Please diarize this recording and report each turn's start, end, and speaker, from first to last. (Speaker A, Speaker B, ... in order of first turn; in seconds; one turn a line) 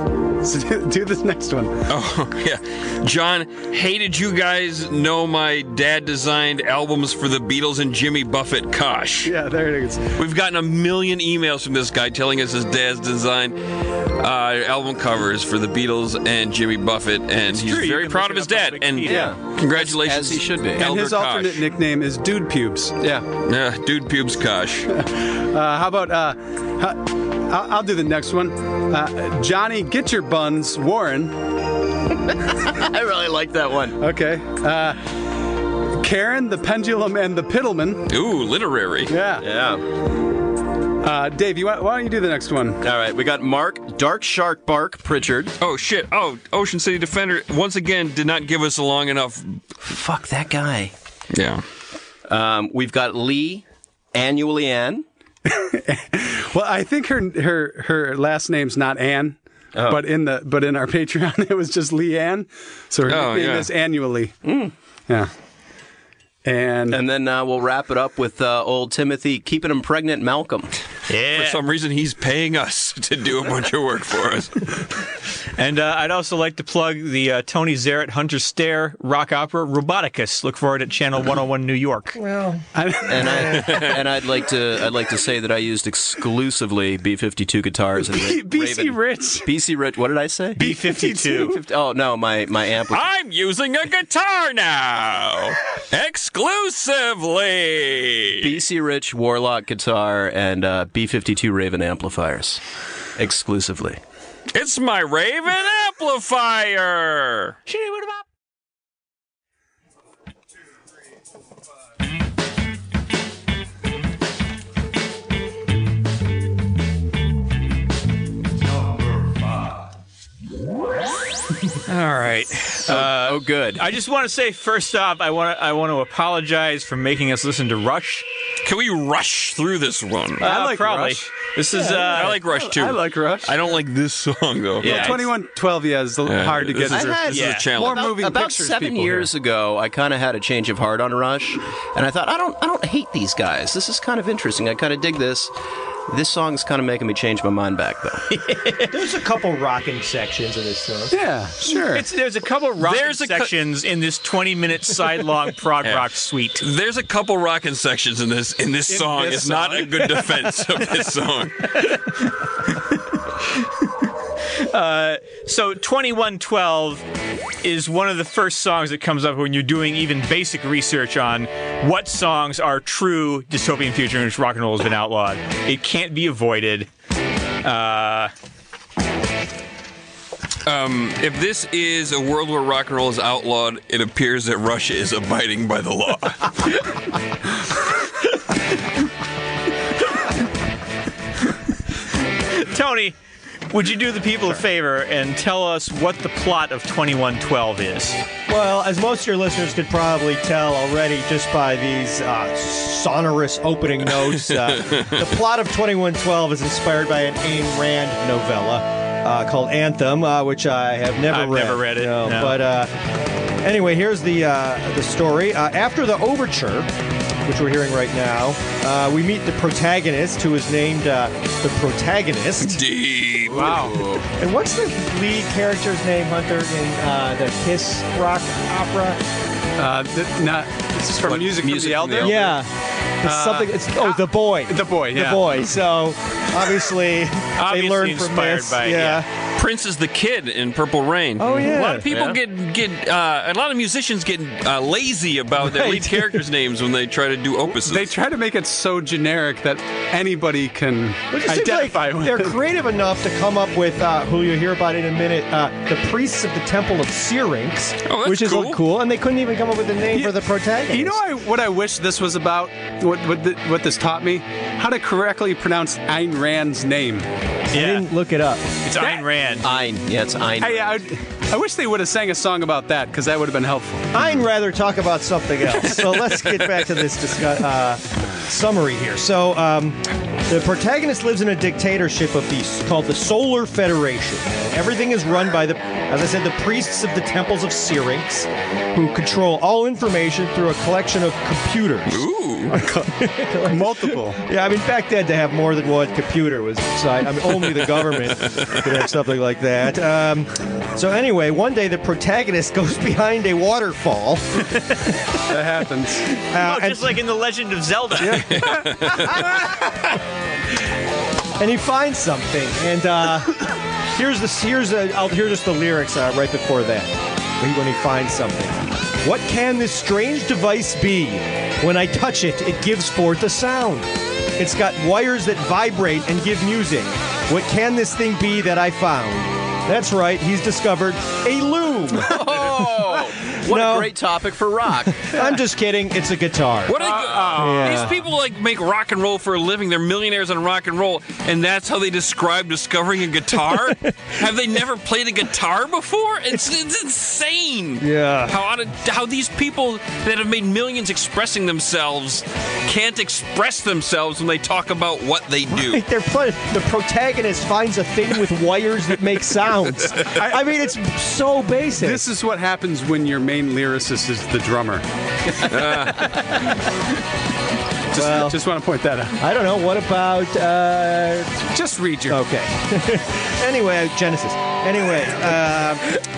Speaker A: 0.3-1.9
Speaker B: 1.9-9.3
Speaker A: 9.2-10.2
Speaker B: 10.1-21.7
Speaker C: 17.4-19.3
Speaker D: 19.1-20.9
Speaker A: 20.8-23.3
Speaker B: 23.4-24.9
Speaker A: 24.9-31.5
Speaker D: 32.3-34.0
Speaker A: 34.0-35.2
Speaker A: 35.8-38.1
Speaker B: 38.1-39.1
Speaker A: 39.1-39.5
Speaker D: 39.4-39.9
Speaker A: 41.0-42.8
Speaker D: 42.8-45.5
Speaker B: 45.6-49.6
Speaker D: 49.8-50.9
Speaker B: 51.3-51.6
Speaker D: 52.3-55.0
Speaker A: 55.5-64.4
Speaker D: 59.8-60.0
Speaker B: 63.1-63.7
Speaker D: 64.4-64.7
Speaker A: 66.5-67.0
Speaker D: 66.9-70.7
Speaker C: 71.1-71.6
Speaker B: 71.3-74.8
Speaker C: 75.6-82.2
Speaker E: 82.2-82.7
Speaker A: 82.8-83.8
Speaker D: 83.1-90.7
Speaker B: 83.6-84.0
Speaker A: 88.0-89.5
Speaker C: 90.6-91.6
Speaker A: 90.6-91.6
Speaker D: 91.4-93.1
Speaker B: 92.9-98.6
Speaker D: 98.4-102.6
Speaker D: 103.2-104.0
Speaker B: 104.5-107.6
Speaker C: 107.7-108.2
Speaker B: 121.9-123.0
Speaker C: 122.8-128.2
Speaker D: 122.9-123.9
Speaker B: 128.6-130.5
Speaker A: 130.4-133.6
Speaker C: 130.4-132.4
Speaker B: 132.1-135.2
Speaker D: 134.8-135.3
Speaker A: 134.8-139.3
Speaker B: 136.2-138.1
Speaker D: 136.9-145.5
Speaker C: 137.3-137.7
Speaker D: 146.1-148.3
Speaker C: 148.3-149.0
Speaker E: 148.9-151.2
Speaker A: 151.1-152.1
Speaker C: 151.6-156.7
Speaker B: 152.8-153.5
Speaker B: 155.8-162.0
Speaker A: 158.9-160.3
Speaker C: 164.6-167.1
Speaker C: 167.6-176.9
Speaker C: 177.6-178.3
Speaker B: 180.7-186.8
Speaker C: 192.5-193.2
Speaker C: 193.7-198.2
Speaker E: 198.5-212.9
Speaker C: 211.3-212.6
Speaker E: 213.6-216.9
Speaker E: 217.4-222.8
Speaker B: 222.6-224.0
Speaker D: 223.5-224.3
Speaker A: 223.5-224.1
Speaker E: 224.3-229.2
Speaker A: 229.8-232.6
Speaker D: 231.1-232.5
Speaker E: 232.2-239.3
Speaker A: 233.2-234.1
Speaker A: 234.7-235.5
Speaker C: 237.6-239.2
Speaker B: 239.6-248.1
Speaker E: 241.4-242.1
Speaker D: 242.1-242.4
Speaker E: 245.6-246.3
Speaker A: 247.7-252.6
Speaker E: 251.3-261.2
Speaker B: 258.1-258.8
Speaker A: 260.9-267.3
Speaker C: 267.7-268.1
Speaker E: 267.7-268.7
Speaker C: 268.8-269.7
Speaker A: 269.0-269.3
Speaker D: 269.6-271.0
Speaker A: 270.6-274.2
Speaker E: 274.1-305.2
Speaker B: 292.1-292.8
Speaker A: 293.6-294.4
Speaker B: 298.4-298.9
Speaker A: 305.5-306.3
Speaker E: 306.4-307.2
Speaker C: 306.5-308.6
Speaker E: 308.2-309.5
Speaker B: 308.5-309.4
Speaker E: 311.6-332.7
Speaker D: 332.2-335.5
Speaker E: 333.6-334.1
Speaker E: 335.2-337.0
Speaker B: 336.9-356.0
Speaker E: 337.5-338.1
Speaker E: 348.0-348.6
Speaker E: 355.7-362.3
Speaker A: 360.4-360.6
Speaker A: 362.0-365.1
Speaker B: 365.6-366.5
Speaker A: 368.1-369.4
Speaker E: 368.1-368.6
Speaker E: 369.4-371.6
Speaker A: 371.7-372.4
Speaker E: 372.3-376.1